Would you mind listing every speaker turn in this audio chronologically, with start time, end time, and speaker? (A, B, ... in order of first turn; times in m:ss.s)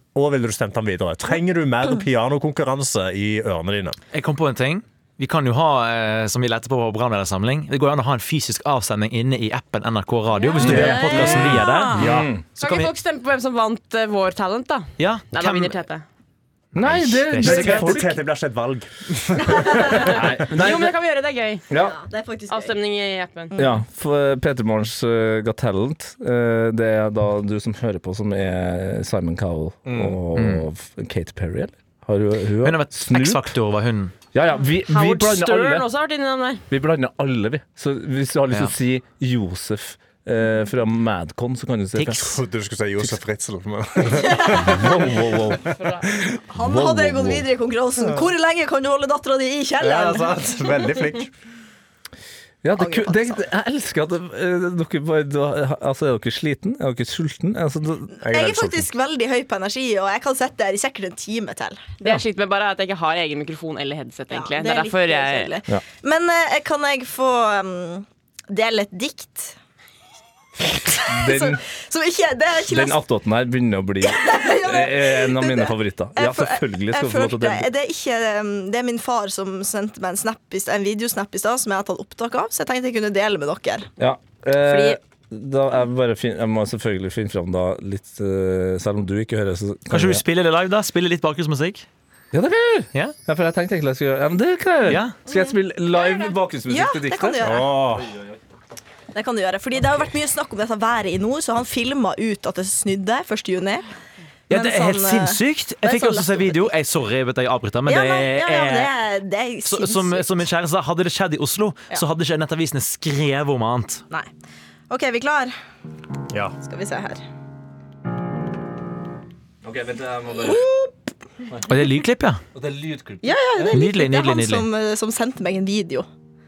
0:00.2-0:04.0 A
0:04.1-0:12.9 B
0:10.4-0:10.9 C
0:10.5-0:12.1 D
0:10.6-0:12.3 A
0:10.6-0:12.4 E
0:12.6-0:16.0 C
0:15.0-0:15.8 B
0:16.8-0:18.2 E
0:16.8-0:18.0 B
0:17.4-0:20.4 A
0:19.5-0:21.7 C
0:20.0-0:20.9 E
0:21.7-0:22.0 E
0:21.7-0:22.8 D
0:22.5-0:23.6 C
0:23.6-0:33.5 E
0:29.9-0:30.2 A
0:30.4-0:30.6 B
0:32.6-0:34.1 B
0:34.3-0:35.9 E
0:34.8-0:36.6 C
0:36.7-0:42.3 E
0:42.0-0:42.3 B
0:42.1-0:46.4 A
0:44.1-0:44.8 D
0:44.5-0:45.6 E
0:45.8-0:46.1 C
0:46.5-0:50.7 D
0:46.6-0:47.5 E
0:48.0-0:48.3 A
0:49.8-0:51.3 A
0:52.6-0:58.2 E
0:52.8-0:53.4 D
0:58.2-1:02.0 D
0:58.2-0:58.9 A
1:02.0-1:05.5 C
1:04.3-1:09.6 D
1:10.6-1:13.0 D
1:11.1-1:11.6 E
1:12.7-1:17.7 E
1:14.0-1:23.9 D
1:24.0-1:30.2 E
1:24.6-1:25.0 D
1:29.9-1:31.9 B
1:32.3-1:38.4 E
1:34.9-1:35.2 B
1:35.3-1:35.6 D
1:36.7-1:37.7 D
1:37.4-1:38.1 A
1:39.1-1:43.9 D
1:44.5-1:48.9 B
1:44.5-1:46.7 D
1:47.9-1:50.4 D
1:49.6-1:54.0 B
1:54.9-1:55.5 D
1:56.3-1:56.6 A
1:56.6-1:57.2 D
1:59.6-2:00.7 E
2:00.3-2:01.0 D
2:01.5-2:01.8 E
2:01.7-2:02.4 B
2:02.5-2:03.8 E
2:03.2-2:06.1 D
2:03.7-2:04.7 B